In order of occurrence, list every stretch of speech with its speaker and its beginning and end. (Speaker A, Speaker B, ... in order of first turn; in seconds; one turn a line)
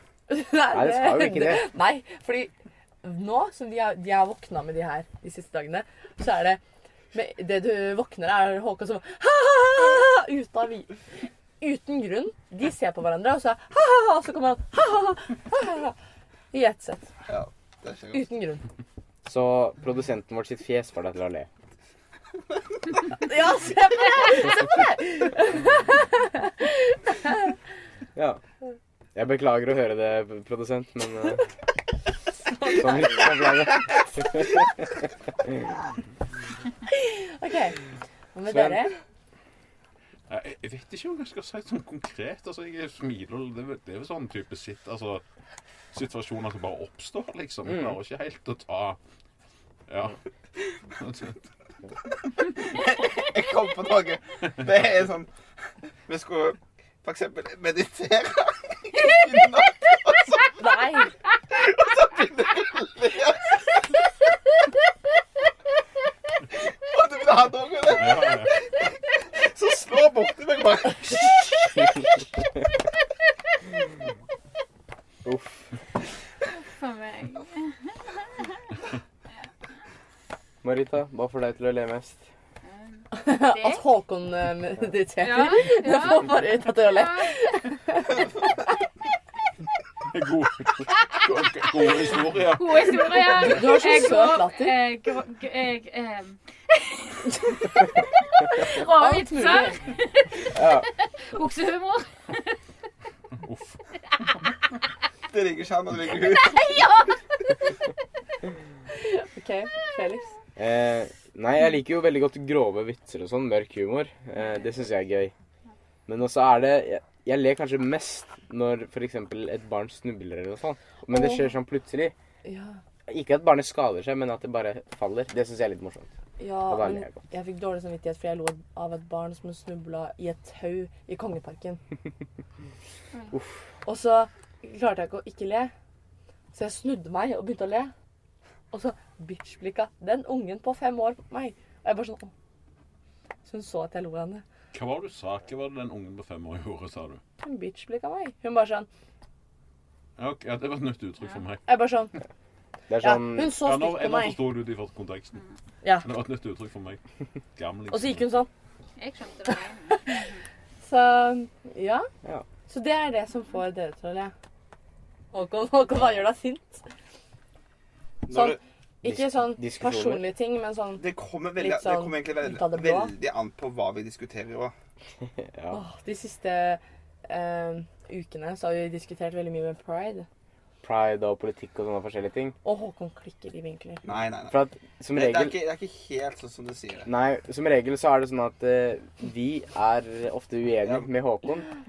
Speaker A: 0.3-6.6
Speaker B: 0.7-1.7
Speaker A: 7.1-10.9
Speaker A: 11.6-15.9
Speaker A: 16.5-17.1
Speaker C: 17.3-18.2
Speaker A: 18.1-18.6
Speaker B: 19.2-21.5
Speaker A: 23.2-27.4
Speaker B: 28.1-28.4
Speaker B: 29.1-31.4
Speaker B: 32.6-34.6
Speaker A: 36.9-37.8
Speaker A: 38.3-38.9
Speaker B: 38.5-38.9
Speaker D: 40.3-45.2
Speaker D: 45.9-49.0
Speaker B: 47.7-48.0
Speaker D: 49.9-50.2
Speaker D: 51.0-51.4
Speaker C: 52.2-55.3
Speaker C: 56.1-60.6
Speaker A: 60.6-61.1
Speaker C: 61.5-63.9
Speaker C: 66.8-72.0
Speaker D: 67.9-68.5
Speaker B: 75.2-75.7
Speaker E: 76.5-78.8
Speaker B: 80.6-82.2
Speaker E: 82.6-83.8
Speaker A: 83.1-88.7
Speaker E: 85.2-87.3
Speaker D: 90.1-93.4
Speaker E: 92.5-97.7
Speaker A: 93.4-94.8
Speaker E: 98.4-102.5
Speaker A: 98.6-99.8
Speaker B: 100.5-100.8
Speaker D: 103.4-103.8
Speaker C: 105.3-106.9
Speaker E: 106.4-107.1
Speaker A: 109.0-110.3
Speaker B: 110.6-115.3
Speaker B: 116.0-122.1
Speaker A: 121.1-121.5
Speaker A: 122.4-122.8
Speaker B: 123.1-126.1
Speaker A: 126.4-131.8
Speaker B: 126.7-127.2
Speaker B: 133.3-133.6
Speaker A: 133.8-135.7
Speaker A: 136.5-137.9
Speaker A: 138.7-142.3
Speaker A: 143.4-144.4
Speaker D: 144.7-147.2
Speaker A: 147.4-148.9
Speaker D: 150.2-151.8
Speaker A: 151.7-152.1
Speaker B: 152.9-153.6
Speaker A: 153.0-154.4
Speaker D: 153.6-155.4
Speaker D: 156.0-157.0
Speaker D: 157.6-158.4
Speaker A: 157.9-158.5
Speaker E: 159.0-160.4
Speaker A: 159.9-160.2
Speaker A: 160.8-162.1
Speaker A: 162.7-164.3
Speaker A: 165.3-166.9
Speaker C: 168.2-168.6
Speaker A: 168.3-171.1
Speaker B: 169.0-170.2
Speaker C: 171.0-174.7
Speaker A: 171.6-173.1
Speaker B: 175.2-175.8
Speaker A: 175.7-180.3
Speaker B: 180.8-182.5
Speaker A: 182.6-184.0
Speaker C: 184.0-184.6
Speaker B: 184.5-185.6
Speaker C: 185.1-187.1
Speaker B: 187.1-191.7
Speaker C: 190.8-191.1